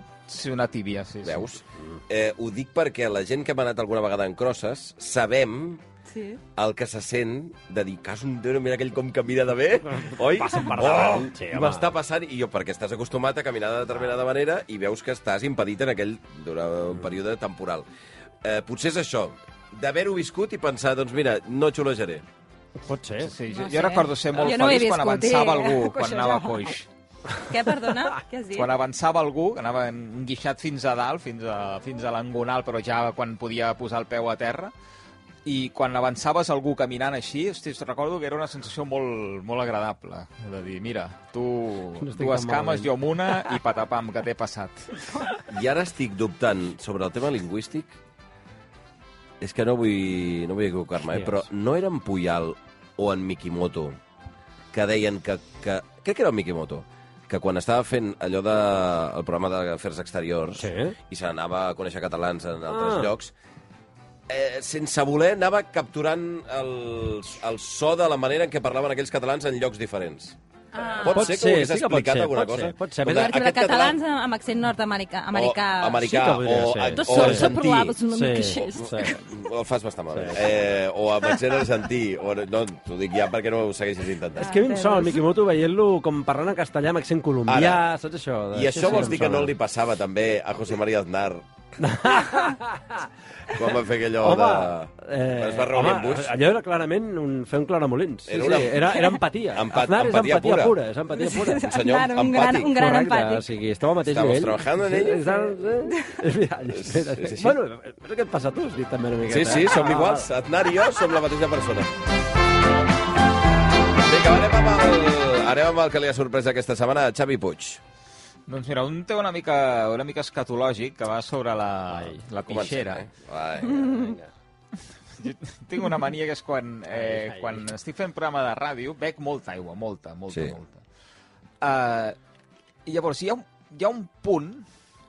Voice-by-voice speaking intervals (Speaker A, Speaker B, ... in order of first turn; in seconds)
Speaker A: 0.3-1.5, 23.2-26.9, 28.5-34.7, 35.5-45.0, 118.5-123.1, 125.2-130.8, 131.6-132.2, 132.9-134.7
Speaker B: 1.2-5.8, 6.5-17.9, 18.4-22.2, 45.5-48.0, 49.4-54.0, 54.7-63.3, 64.3-74.0, 75.3-78.0, 79.2-84.6, 87.5-87.8, 88.5-91.5, 93.5-96.3, 98.3-100.8, 101.5-102.8, 104.0-105.4, 106.7-107.6, 109.3-111.9, 114.0-117.8, 122.4-124.2, 130.3-130.6
Speaker C: 6.1-6.4, 23.5-26.8, 27.4-28.7, 70.7-71.4, 73.1-76.2, 77.0-79.3, 81.3-81.6, 84.4-85.2, 101.1-103.5, 105.9-106.2
Speaker D: 9.9-11.9, 22.9-23.3, 42.0-42.9, 51.1-51.4, 60.6-61.0, 62.7-63.1, 71.1-73.3, 76.0-77.5, 78.1-79.2, 80.1-80.5, 84.4-89.5, 91.8-93.1, 94.2-101.7, 102.8-110.3, 121.9-122.2, 124.0-124.3, 126.9-127.7